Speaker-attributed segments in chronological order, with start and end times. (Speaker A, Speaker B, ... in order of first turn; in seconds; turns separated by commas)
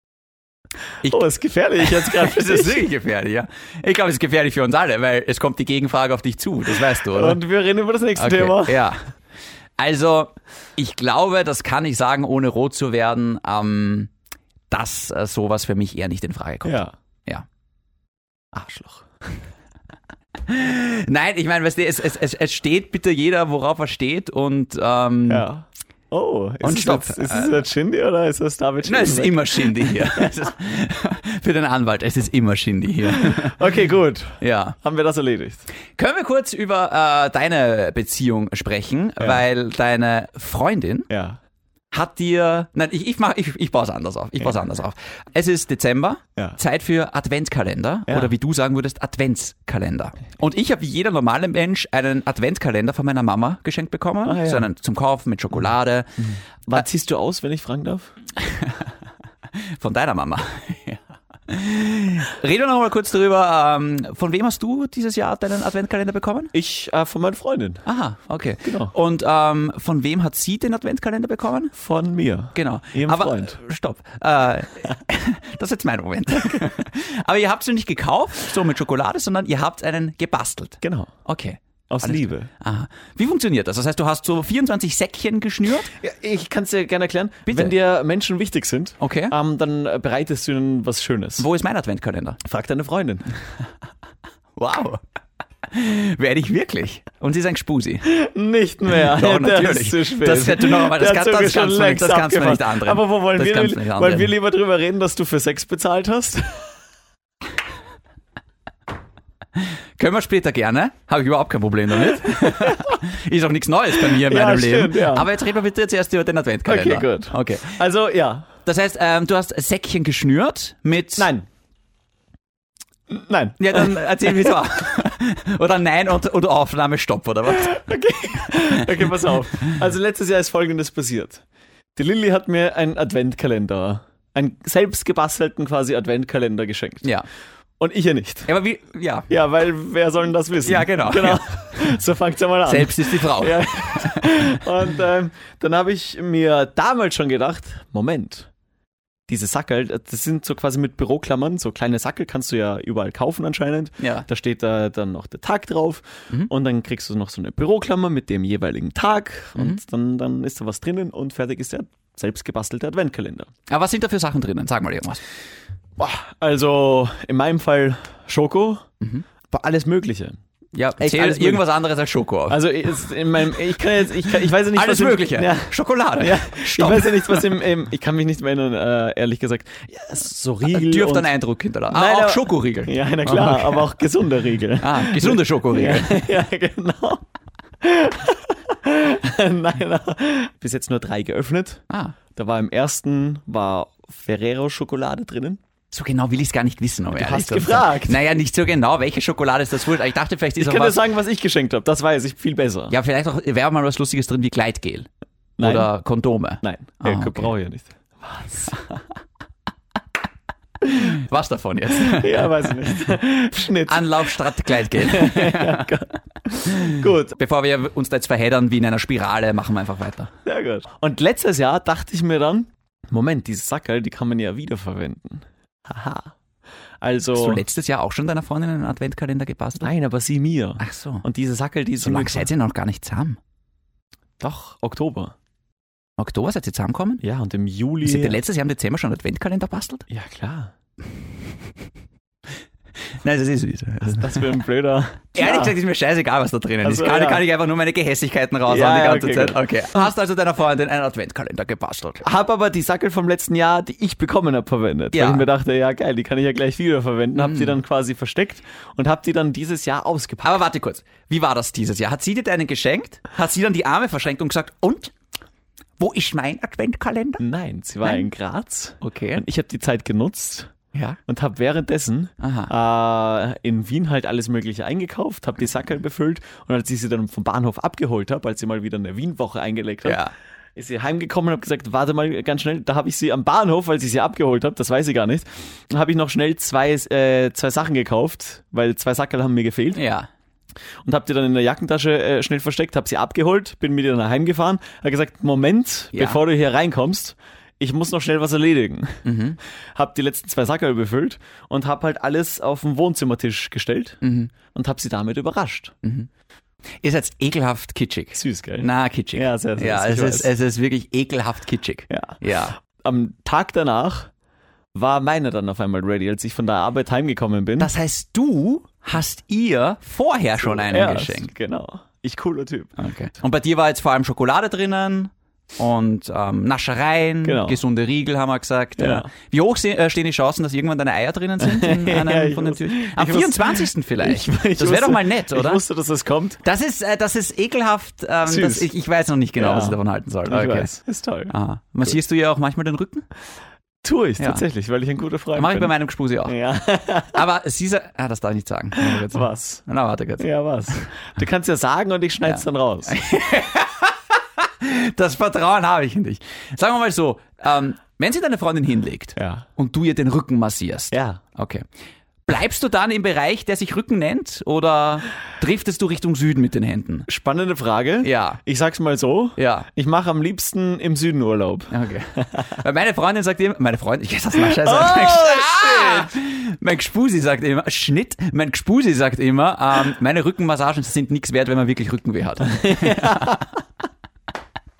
Speaker A: 1.0-2.8, Speaker B: 1.8-7.4, Speaker A: 7.1-8.8, Speaker B: 8.2-9.1, Speaker B: 9.8-14.1, Speaker B: 14.7-17.4, Speaker A: 16.6-16.9, Speaker A: 18.5-19.1, Speaker B: 20.4-25.5, Speaker A: 25.3-30.3, Speaker B: 26.6-27.6, Speaker B: 28.8-33.6, Speaker A: 33.1-35.6, Speaker B: 34.4-34.8, Speaker B: 36.0-41.1, Speaker A: 41.1-41.4, Speaker B: 41.9-56.1, Speaker A: 48.1-48.3, Speaker A: 54.2-54.7, Speaker A: 56.2-58.1, Speaker B: 58.4-58.9, Speaker B: 59.5-66.5, Speaker A: 66.5-67.8, Speaker B: 67.8-71.7, Speaker A: 68.6-68.9, Speaker A: 71.7-73.6, Speaker B: 72.5-85.9, Speaker A: 80.8-81.1, Speaker A: 81.9-82.5, Speaker A: 86.0-91.5, Speaker B: 87.5-87.8, Speaker B: 89.0-89.3, Speaker B: 91.4-92.4, Speaker A: 92.4-93.3, Speaker B: 94.5-95.0, Speaker B: 95.7-98.0, Speaker A: 98.0-106.7, Speaker B: 98.9-104.3, Speaker B: 109.6-117.8, Speaker A: 112.3-112.9, Speaker A: 114.2-115.3, Speaker A: 116.7-118.5, Speaker B: 118.6-121.3, Speaker A: 121.2-121.5, Speaker A: 123.1-124.5, Speaker B: 123.6-127.8, Speaker A: 127.5-131.4, Speaker B: 128.6-129.1, Speaker A: 131.9-137.1, Speaker A: 137.8-138.5, Speaker B: 138.5-139.3, Speaker A: 139.3-148.5, Speaker B: 140.6-141.4, Speaker B: 142.6-144.3, Speaker A: 149.3-163.5, Speaker B: 154.0-154.3, Speaker B: 163.7-165.2, Speaker A: 166.0-168.8, Speaker A: 169.5-170.4, Speaker B: 170.7-172.6, Speaker A: 171.0-171.6, Speaker A: 172.5-181.3, Speaker B: 174.7-177.6, Speaker B: 180.6-183.9, Speaker A: 181.9-187.2, Speaker B: 184.8-186.2, Speaker A: 187.8-191.8, Speaker B: 191.9-192.2, Speaker A: 192.3-195.6, Speaker B: 195.9-201.0, Speaker A: 197.1-198.2, Speaker A: 200.6-202.9, Speaker B: 202.9-205.1, Speaker A: 205.6-205.9, Speaker B: 205.6-207.5, Speaker A: 206.6-208.9, Speaker B: 210.9-212.7, Speaker A: 212.0-214.3, Speaker B: 213.8-215.9, Speaker A: 214.8-217.3, Speaker B: 216.7-220.3, Speaker A: 220.4-226.3, Speaker A: 227.0-227.6, Speaker B: 227.3-229.9, Speaker A: 229.8-232.5, Speaker B: 230.8-231.2, Speaker B: 232.0-233.4, Speaker A: 234.4-235.3, Speaker B: 236.2-237.2, Speaker A: 237.2-238.4, Speaker B: 238.0-240.1, Speaker A: 240.1-240.7, Speaker B: 243.2-244.5, Speaker A: 244.0-245.7, Speaker B: 245.3-252.2, Speaker A: 246.8-247.4, Speaker A: 248.7-249.6, Speaker A: 252.2-260.6, Speaker B: 255.1-255.5, Speaker B: 257.3-257.8, Speaker B: 260.4-265.1, Speaker B: 266.0-267.4, Speaker A: 267.4-270.7, Speaker B: 269.0-269.4, Speaker B: 270.9-271.2, Speaker A: 271.2-280.2, Speaker B: 272.4-272.7, Speaker B: 280.0-280.3, Speaker A: 280.8-290.0, Speaker B: 289.9-290.3, Speaker A: 291.0-299.2, Speaker B: 296.1-296.4, Speaker B: 299.2-299.6, Speaker A: 299.9-305.9, Speaker B: 304.2-304.5, Speaker B: 306.0-306.3, Speaker B: 307.0-312.8, Speaker A: 308.3-310.5, Speaker A: 312.1-314.3, Speaker A: 314.9-317.9, Speaker B: 317.8-321.5, Speaker A: 320.6-322.9, Speaker B: 323.0-335.8, Speaker A: 327.4-327.8, Speaker A: 329.0-329.3, Speaker A: 331.6-336.6, Speaker B: 336.6-340.9, Speaker A: 338.4-338.9, Speaker A: 339.6-341.5, Speaker B: 341.5-343.2, Speaker A: 344.0-345.9, Speaker B: 344.4-344.6, Speaker B: 345.5-346.6, Speaker A: 346.4-347.4, Speaker B: 347.3-351.0, Speaker A: 349.0-349.8, Speaker A: 350.4-353.2, Speaker B: 352.4-361.9, Speaker A: 359.4-359.6, Speaker A: 361.1-361.4, Speaker B: 362.4-367.3, Speaker A: 367.3-372.7, Speaker B: 368.2-368.6, Speaker B: 369.6-369.9, Speaker B: 371.9-383.6, Speaker A: 374.6-376.3, Speaker A: 382.8-383.7